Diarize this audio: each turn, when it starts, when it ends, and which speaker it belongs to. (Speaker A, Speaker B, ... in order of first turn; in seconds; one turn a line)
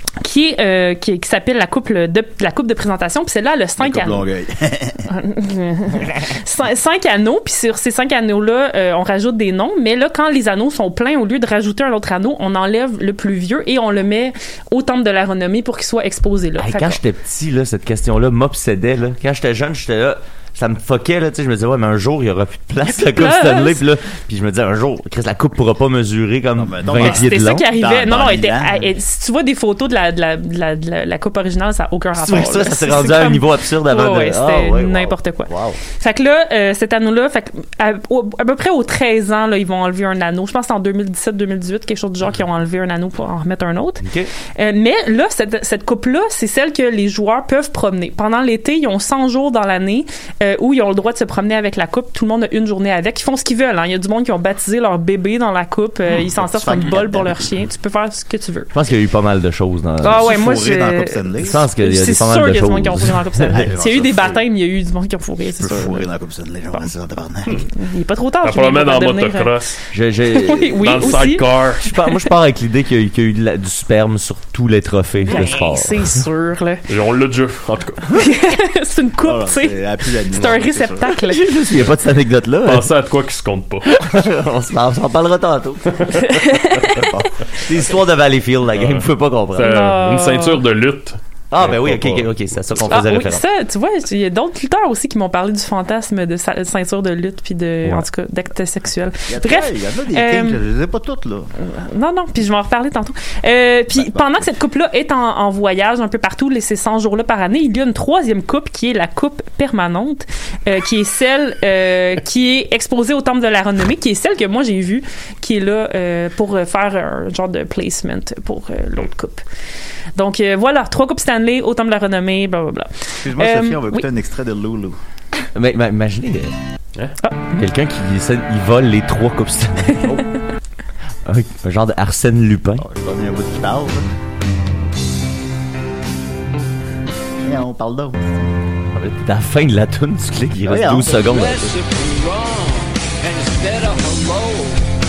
Speaker A: 0.2-4.2
Speaker B: 3.8-5.1
Speaker A: 5.1-17.0
Speaker C: 16.6-27.7
Speaker A: 22.8-23.8
Speaker B: 26.6-28.9
Speaker A: 27.0-44.0
Speaker C: 32.1-35.8
Speaker C: 44.0-44.3
Speaker A: 44.5-58.7
Speaker B: 56.1-57.4
Speaker C: 58.7-60.3
Speaker B: 60.0-61.7
Speaker A: 60.0-61.2
Speaker C: 61.4-63.6
Speaker A: 61.8-66.1
Speaker B: 63.5-64.4
Speaker B: 65.5-67.6
Speaker A: 67.7-69.5
Speaker D: 68.4-69.8
Speaker C: 69.9-71.1
Speaker A: 70.3-71.5
Speaker D: 70.8-71.9
Speaker C: 71.8-76.2
Speaker A: 75.2-76.8
Speaker D: 76.9-78.0
Speaker A: 78.1-81.5
Speaker B: 79.2-81.1
Speaker C: 81.2-82.9
Speaker D: 82.6-83.9
Speaker C: 83.9-86.5
Speaker A: 86.2-87.2
Speaker B: 86.9-87.3
Speaker C: 87.5-89.7
Speaker D: 88.7-92.3
Speaker A: 89.6-90.6
Speaker C: 91.5-93.4
Speaker A: 92.9-100.6
Speaker B: 99.3-101.5
Speaker A: 101.6-119.4
Speaker B: 103.9-104.5
Speaker A: 120.2-124.0
Speaker B: 123.2-125.0
Speaker C: 125.5-126.5
Speaker A: 127.2-127.7
Speaker C: 127.6-130.1
Speaker C: 131.2-132.8
Speaker B: 132.8-134.1
Speaker B: 137.4-138.5
Speaker C: 138.9-141.7
Speaker B: 140.6-141.5
Speaker E: 141.2-144.8